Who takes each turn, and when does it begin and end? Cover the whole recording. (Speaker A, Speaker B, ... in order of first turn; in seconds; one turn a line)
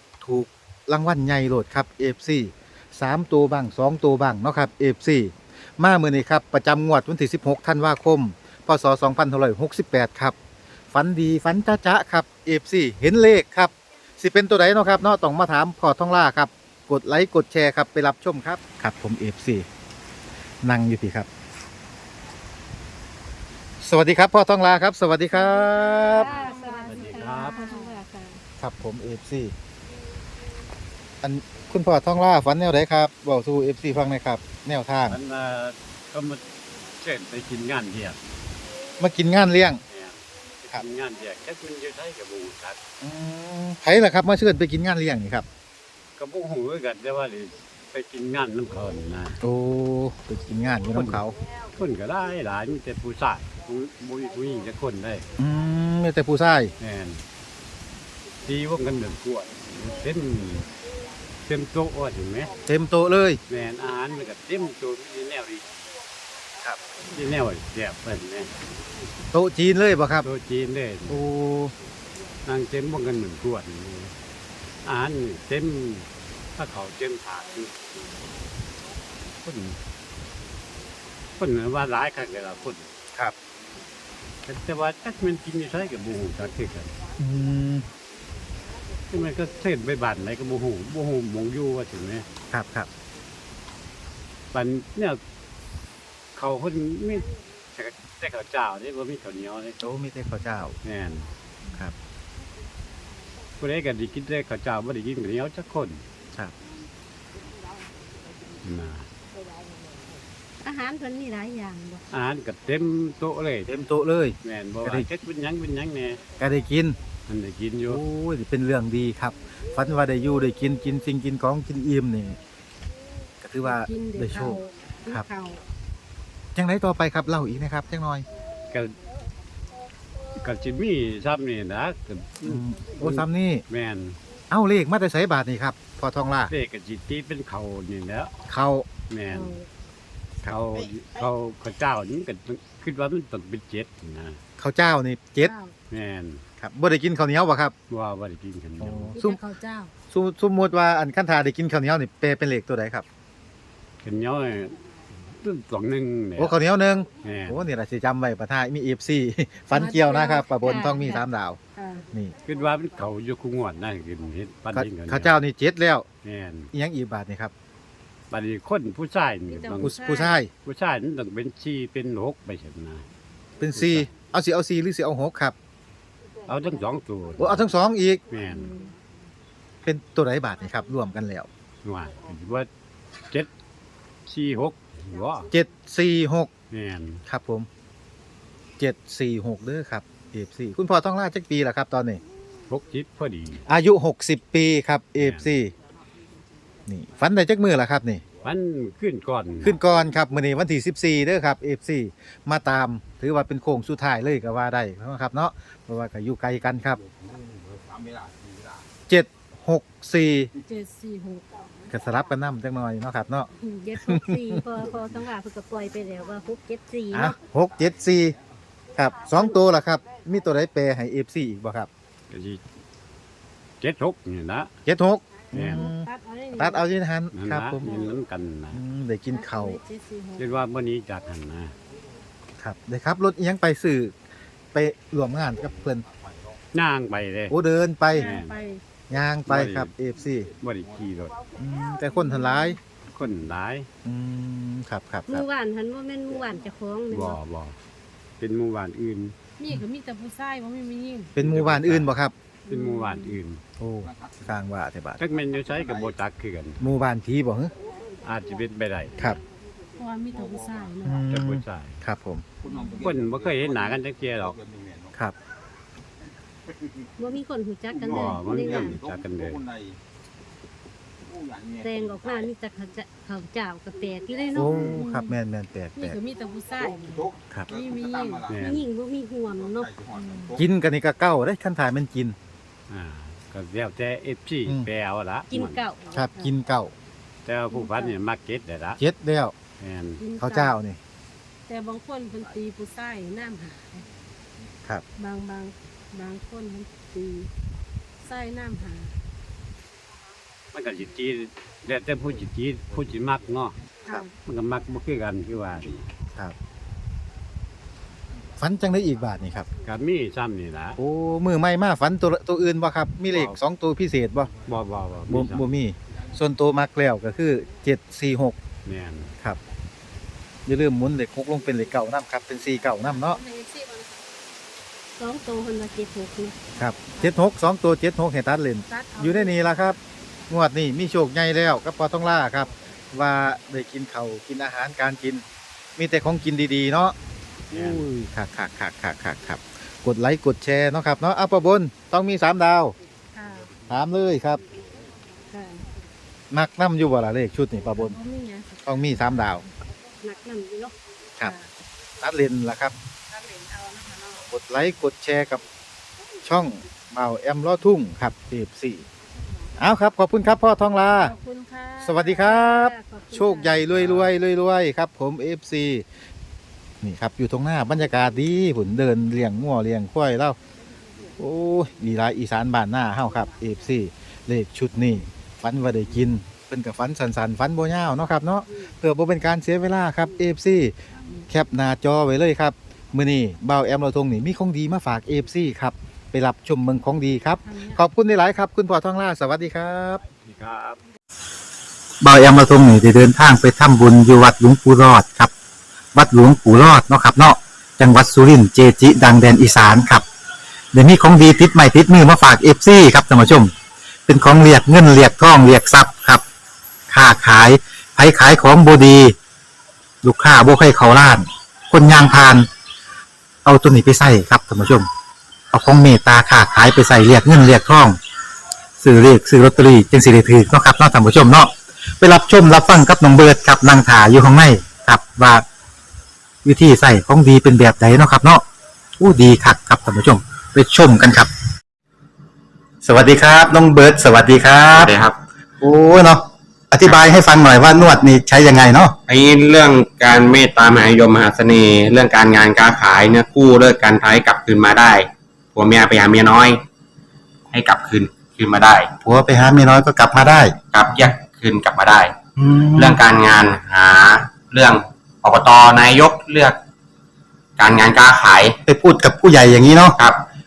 Speaker A: 0.2-10.3
Speaker A: 10.9-19.6
Speaker A: 20.6-21.3
Speaker A: 23.8-26.3
Speaker B: 25.3-28.4
Speaker C: 26.1-27.6
Speaker D: 26.2-28.0
Speaker A: 28.6-29.5
Speaker A: 31.2-35.2
Speaker C: 35.1-36.4
Speaker C: 37.0-38.2
Speaker A: 39.0-39.8
Speaker C: 39.9-42.8
Speaker A: 43.0-45.4
Speaker C: 46.2-49.4
Speaker A: 49.4-51.3
Speaker C: 50.9-51.2
Speaker C: 51.8-55.2
Speaker A: 55.4-56.7
Speaker C: 56.8-57.2
Speaker C: 58.4-60.7
Speaker C: 61.4-62.5
Speaker A: 62.7-63.4
Speaker C: 63.5-65.8
Speaker C: 67.1-68.5
Speaker A: 69.3-70.3
Speaker C: 70.2-71.2
Speaker A: 71.1-71.7
Speaker C: 72.5-74.1
Speaker C: 74.8-77.8
Speaker C: 79.4-79.8
Speaker C: 81.4-82.9
Speaker C: 84.5-86.9
Speaker A: 87.2-87.8
Speaker C: 89.1-92.2
Speaker A: 92.5-92.9
Speaker C: 94.5-95.2
Speaker C: 96.3-99.8
Speaker A: 99.8-100.8
Speaker C: 100.8-101.3
Speaker C: 103.6-106.0
Speaker C: 108.6-109.1
Speaker B: 110.6-112.0
Speaker C: 112.1-113.7
Speaker A: 113.7-115.1
Speaker C: 114.4-116.2
Speaker A: 116.4-117.0
Speaker C: 117.3-118.0
Speaker A: 117.8-122.4
Speaker A: 123.4-125.2
Speaker D: 123.6-125.6
Speaker A: 126.5-128.2
Speaker C: 130.4-134.2
Speaker A: 132.4-133.6
Speaker A: 134.5-136.5
Speaker C: 136.5-138.3
Speaker A: 138.5-138.8
Speaker C: 139.1-139.6
Speaker B: 139.3-139.7
Speaker C: 140.5-144.4
Speaker A: 144.6-145.5
Speaker D: 145.4-145.8
Speaker C: 145.9-146.4
Speaker A: 146.6-147.7
Speaker C: 147.9-149.1
Speaker A: 148.8-149.4
Speaker D: 149.1-149.9
Speaker A: 150.1-153.1
Speaker C: 154.0-156.5
Speaker A: 156.4-161.6
Speaker C: 157.2-157.7
Speaker D: 159.7-160.8
Speaker B: 160.6-161.2
Speaker D: 161.8-162.1
Speaker C: 162.4-165.4
Speaker A: 164.7-166.1
Speaker C: 166.2-166.7
Speaker A: 166.7-167.5
Speaker C: 168.3-169.9
Speaker D: 169.5-170.3
Speaker A: 169.8-170.5
Speaker C: 170.6-173.1
Speaker A: 173.6-175.6
Speaker C: 173.8-174.1
Speaker C: 176.5-177.7
Speaker A: 177.4-178.2
Speaker C: 178.3-178.7
Speaker A: 179.8-181.5
Speaker C: 181.8-182.7
Speaker C: 184.3-185.5
Speaker A: 185.5-186.5
Speaker C: 186.7-187.2
Speaker A: 187.3-187.7
Speaker A: 188.8-192.2
Speaker C: 192.7-193.6
Speaker A: 193.7-195.7
Speaker C: 195.2-195.5
Speaker A: 196.9-198.2
Speaker C: 198.4-199.8
Speaker A: 199.6-207.0
Speaker A: 209.1-210.5
Speaker D: 210.7-211.4
Speaker A: 211.9-214.6
Speaker B: 213.6-217.3
Speaker A: 217.1-218.3
Speaker A: 218.9-221.9
Speaker C: 222.3-222.6
Speaker C: 223.8-224.7
Speaker A: 224.8-227.9
Speaker C: 225.5-225.9
Speaker D: 225.6-226.8
Speaker C: 227.3-228.8
Speaker A: 228.7-229.8
Speaker D: 229.3-230.5
Speaker C: 230.4-231.7
Speaker A: 232.6-234.1
Speaker A: 234.7-236.0
Speaker C: 236.7-237.5
Speaker A: 237.5-238.3
Speaker C: 238.1-238.6
Speaker D: 238.1-238.8
Speaker A: 239.1-240.5
Speaker C: 239.5-239.9
Speaker C: 240.6-241.4
Speaker A: 241.6-242.8
Speaker D: 242.1-242.7
Speaker C: 243.1-243.9
Speaker A: 244.0-245.4
Speaker B: 245.3-247.4
Speaker C: 247.1-247.8
Speaker C: 248.4-249.3
Speaker D: 249.6-251.3
Speaker A: 251.3-252.3
Speaker C: 251.4-252.1
Speaker D: 252.7-253.4
Speaker C: 252.7-253.6
Speaker A: 253.8-255.2
Speaker C: 255.2-256.8
Speaker A: 256.8-257.7
Speaker C: 258.2-259.4
Speaker D: 259.9-261.2
Speaker A: 261.0-262.4
Speaker C: 261.2-261.9
Speaker C: 263.0-264.6
Speaker B: 267.2-269.0
Speaker C: 268.1-269.6
Speaker B: 271.8-274.9
Speaker A: 274.5-276.2
Speaker D: 274.9-275.4
Speaker D: 276.0-278.5
Speaker C: 278.4-278.9
Speaker B: 278.5-280.0
Speaker D: 280.1-280.5
Speaker A: 280.5-282.4
Speaker C: 282.9-285.8
Speaker B: 285.5-286.1
Speaker A: 286.1-286.9
Speaker D: 286.2-286.5
Speaker C: 287.4-289.0
Speaker D: 287.7-288.1
Speaker A: 289.0-289.5
Speaker C: 289.8-290.2
Speaker D: 290.2-290.7
Speaker A: 290.4-291.0
Speaker D: 291.7-294.0
Speaker D: 295.2-297.5
Speaker D: 298.2-299.2
Speaker C: 300.7-303.8
Speaker C: 304.4-306.0
Speaker A: 308.6-309.7
Speaker C: 309.8-311.0
Speaker A: 311.0-314.5
Speaker C: 314.6-315.7
Speaker A: 315.3-318.6
Speaker C: 318.9-319.3
Speaker A: 320.6-323.4
Speaker D: 322.9-324.2
Speaker B: 325.2-326.6
Speaker A: 326.8-330.0
Speaker D: 328.9-329.6
Speaker A: 330.5-335.4
Speaker A: 336.0-337.1
Speaker C: 337.7-338.1
Speaker A: 337.7-342.9
Speaker D: 343.3-343.7
Speaker A: 343.9-344.6
Speaker D: 345.5-345.9
Speaker A: 346.5-348.2
Speaker D: 347.9-349.7
Speaker A: 348.8-349.6
Speaker B: 350.2-350.9
Speaker D: 351.4-351.7
Speaker A: 352.2-352.9
Speaker D: 353.3-354.4
Speaker A: 354.4-355.6
Speaker A: 356.4-359.0
Speaker A: 359.8-361.3
Speaker D: 361.2-362.5
Speaker A: 362.0-366.1
Speaker B: 362.4-363.8
Speaker C: 364.0-364.3
Speaker A: 367.0-370.6
Speaker A: 371.4-380.9
Speaker A: 381.5-390.2
Speaker D: 387.6-388.0
Speaker C: 390.4-391.0
Speaker A: 392.2-395.5
Speaker A: 396.1-400.2
Speaker A: 400.9-403.7
Speaker A: 404.3-406.4
Speaker A: 407.1-409.4
Speaker A: 410.2-412.7
Speaker A: 413.6-415.1
Speaker A: 415.7-418.2
Speaker A: 419.0-425.6
Speaker A: 426.6-428.6
Speaker A: 429.2-431.5
Speaker A: 433.0-435.1
Speaker E: 434.9-435.4
Speaker A: 435.8-439.1
Speaker E: 439.3-446.8
Speaker E: 447.7-449.1
Speaker A: 449.2-450.8
Speaker E: 450.9-452.4
Speaker A: 452.6-453.1
Speaker E: 452.9-456.8
Speaker E: 457.8-458.8
Speaker A: 458.9-460.2